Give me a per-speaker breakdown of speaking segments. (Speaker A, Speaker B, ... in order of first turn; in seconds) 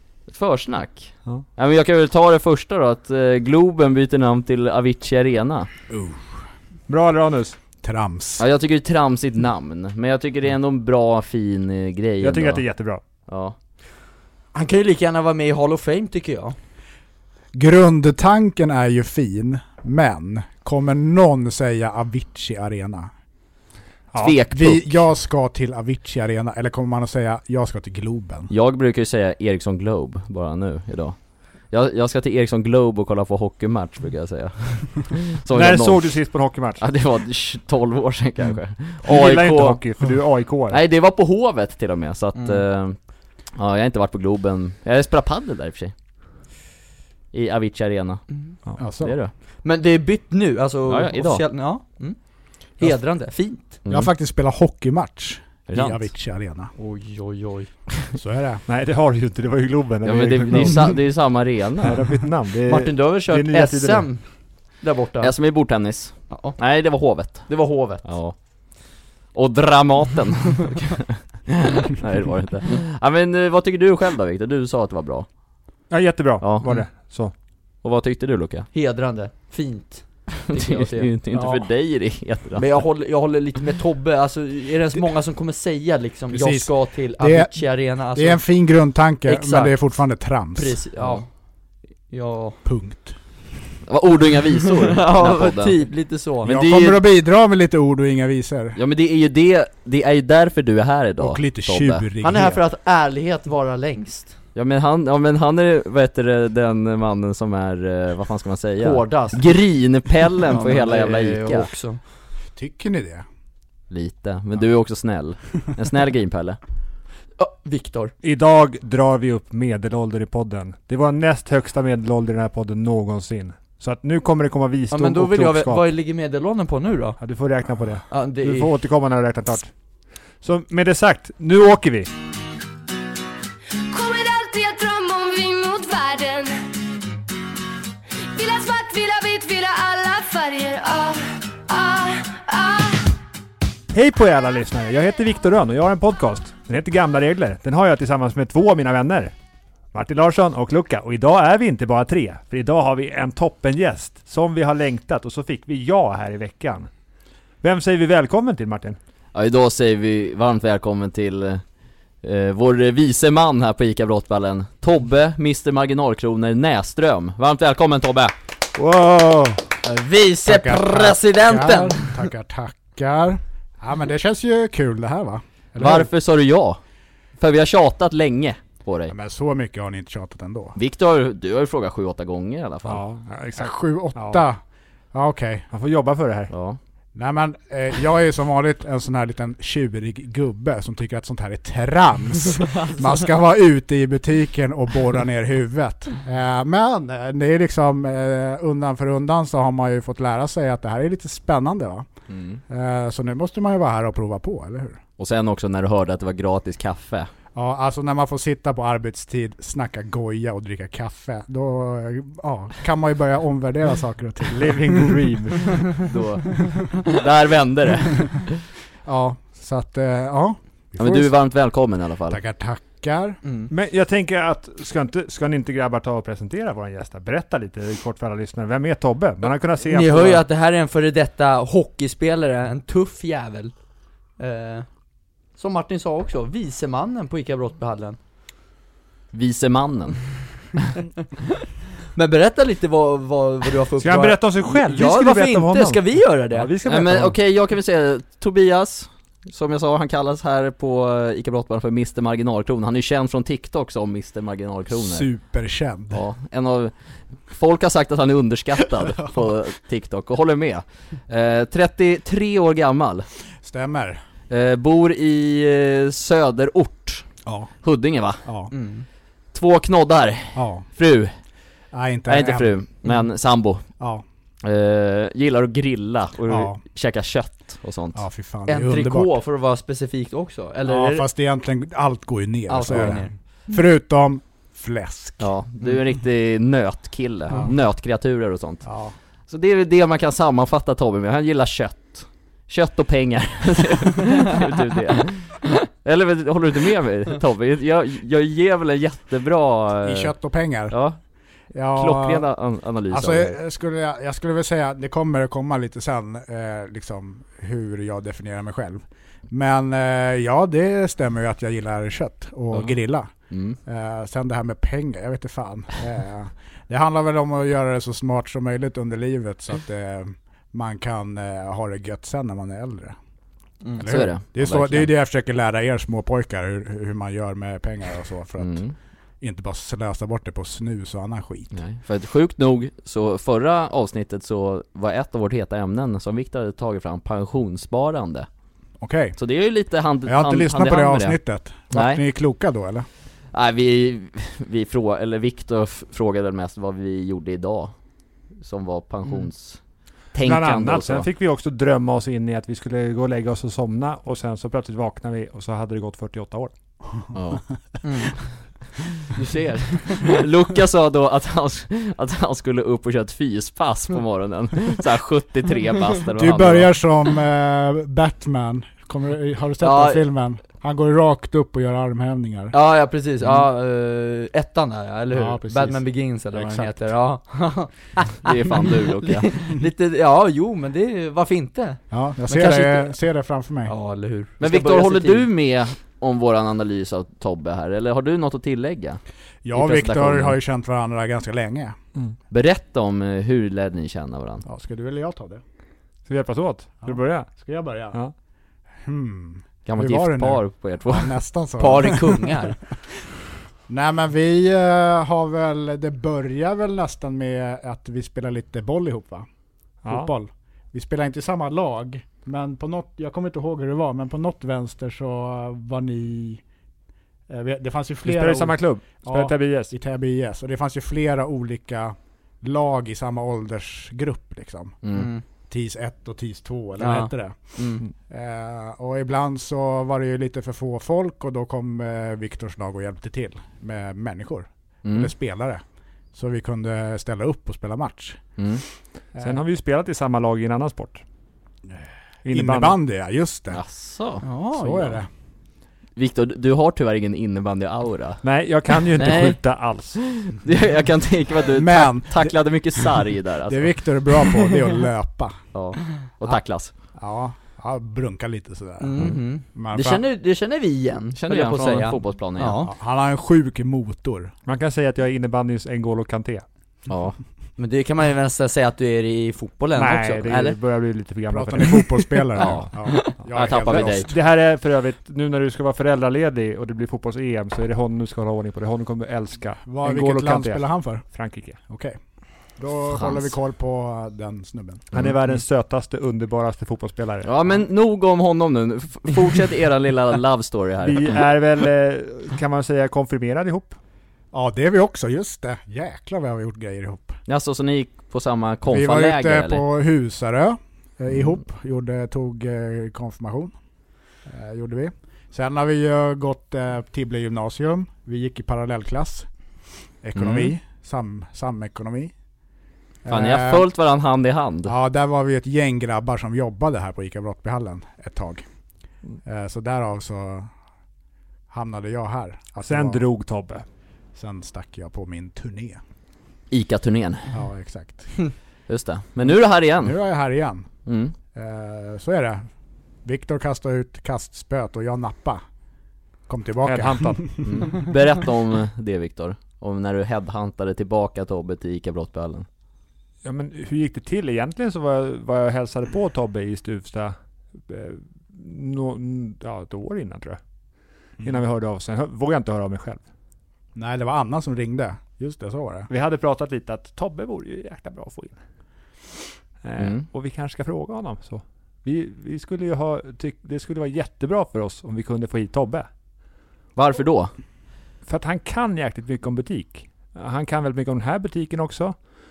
Speaker A: 0.3-5.7, 8.4-12.6, 13.3-13.5, 24.2-25.0, 28.5-31.1, 31.7-36.1, 36.8-39.8, 40.7-43.0, 43.5-45.9, 47.3-48.2, 48.8-49.3, 50.9-51.4, 55.7-56.1, 60.0-62.0, 65.2-68.3, 69.3-75.2, 76.4-76.7, 77.8-78.7, 80.5-82.7, 93.9-95.7, 96.4-97.0, 98.8-102.0, 104.5-111.7, 113.9-116.6, 159.3-161.6, 162.2-168.3, 175.8-176.8, 177.4-179.1, 180.8-183.0, 186.5-186.8, 202.3-202.6, 205.2-207.3, 216.0-218.6, 221.0-222.4, 239.3-240.2, 246.8-255.3, 256.1-256.9, 257.5-263.3, 264.5-267.2, 267.8-268.4, 269.5-271.3, 272.3-273.9, 274.6-278.2, 285.4-288.9, 289.5-300.3, 300.9-301.2, 301.9-303.5, 313.5-313.8, 324.0-325.1, 328.6-328.9, 331.7-338.5, 339.4-341.4, 341.9-342.2, 343.5-347.9, 348.6-349.8, 350.3-351.2, 357.3-357.6, 360.1-366.9, 378.4-379.5, 384.6-389.2, 389.7-390.6, 392.5-394.6, 399.9-401.3, 425.0-425.3, 435.0-435.3, 438.6-438.8, 443.7-444.5, 446.1-448.4, 449.1-449.6, 450.1-453.9, 455.7-456.9, 461.3-462.8, 467.1-467.4, 472.6-474.3, 483.1-483.5, 487.4-491.4, 497.5-499.8, 510.4-510.7, 513.3-514.9, 526.7-527.5, 528.9-530.2, 531.0-531.3, 537.6-542.6, 560.0-560.2, 567.0-567.5
Speaker B: 5.9-6.4, 7.8-8.4, 17.5-23.1, 24.5-28.5, 48.8-49.1, 53.9-56.7, 58.1-58.6, 81.3-81.6, 86.3-87.6, 88.1-90.8, 92.6-93.2, 96.4-98.8, 101.2-102.6, 112.5-113.2, 170.4-176.1, 179.1-180.8, 183.6-184.6, 185.1-185.7, 187.1-202.1, 202.7-205.0, 207.5-215.2, 219.0-221.3, 222.3-223.4, 254.9-256.2, 263.6-264.2, 267.4-267.7, 268.4-268.7, 270.5-270.8, 271.9-272.7, 276.5-276.8, 278.1-279.4, 280.8-285.5, 288.8-289.1, 300.0-300.9, 301.7-302.5, 303.1-313.3, 313.8-323.1, 324.0-328.8, 329.4-331.7, 339.0-339.4, 340.2-343.1, 366.3-372.7, 375.3-376.9, 382.1-383.9, 389.6-391.9, 394.6-395.6, 397.0-398.2, 399.0-402.6, 403.9-409.4, 410.1-416.6, 417.5-425.0, 425.7-435.8, 436.3-438.4, 442.4-443.8, 444.7-445.3, 451.7-452.5, 453.7-455.6, 457.2-460.2, 462.8-464.5, 471.5-474.4, 479.8-481.2, 481.9-482.2, 482.8-485.1, 494.5-497.4, 498.9-503.7, 504.4-509.5, 510.2-512.3, 513.2-513.9, 514.9-518.6, 519.4-520.7, 521.7-523.2, 524.3-526.0, 527.5-528.3, 530.0-530.9, 531.5-532.6, 533.2-535.6, 536.5-537.7, 553.9-556.1
Speaker C: 6.9-7.6, 12.2-13.0, 24.1-24.4, 35.5-36.8, 39.0-40.8, 58.7-61.0, 61.8-64.1, 75.9-77.3, 118.2-125.9, 127.2-129.7, 130.4-132.1, 143.9-149.3, 149.9-156.9, 157.6-159.0, 168.8-169.6, 182.8-184.4, 185.7-186.5, 214.5-215.9, 223.7-230.4, 244.0-247.3, 350.4-356.7, 396.2-397.5, 410.0-410.3, 418.2-419.9, 439.4-441.2, 442.4-443.0, 448.4-450.2, 464.6-466.6, 469.9-472.3, 473.7-481.8, 485.1-487.5, 491.0-494.0, 522.8-523.8, 536.8-537.4, 543.4-550.6, 551.4-553.2, 556.1-558.6, 559.8-566.1, 568.2-572.2
Speaker D: 14.5-16.5, 42.4-42.6, 49.6-52.2, 52.8-53.8, 56.8-57.7, 62.7-64.2, 64.8-65.3, 66.3-66.6, 67.5-68.0, 78.7-81.1, 82.5-88.4, 89.2-89.7, 90.5-91.2, 92.1-92.6, 94.8-96.5, 102.2-104.3, 108.8-109.4, 110.5-112.0, 117.4-118.1, 124.9-127.2, 128.1-128.7, 169.8-172.2, 223.4-223.7, 229.9-233.7, 234.4-234.9, 235.6-238.2, 242.1-246.7, 268.7-269.1, 278.7-281.2, 282.7-283.3, 358.0-358.5, 359.3-360.4, 369.8-370.2, 372.7-383.1, 383.9-385.5, 401.8-402.8, 425.1-425.4, 427.0-428.0, 444.4-445.2, 459.0-462.9, 467.8-470.8
Speaker E: 133.9-136.7, 138.3-143.2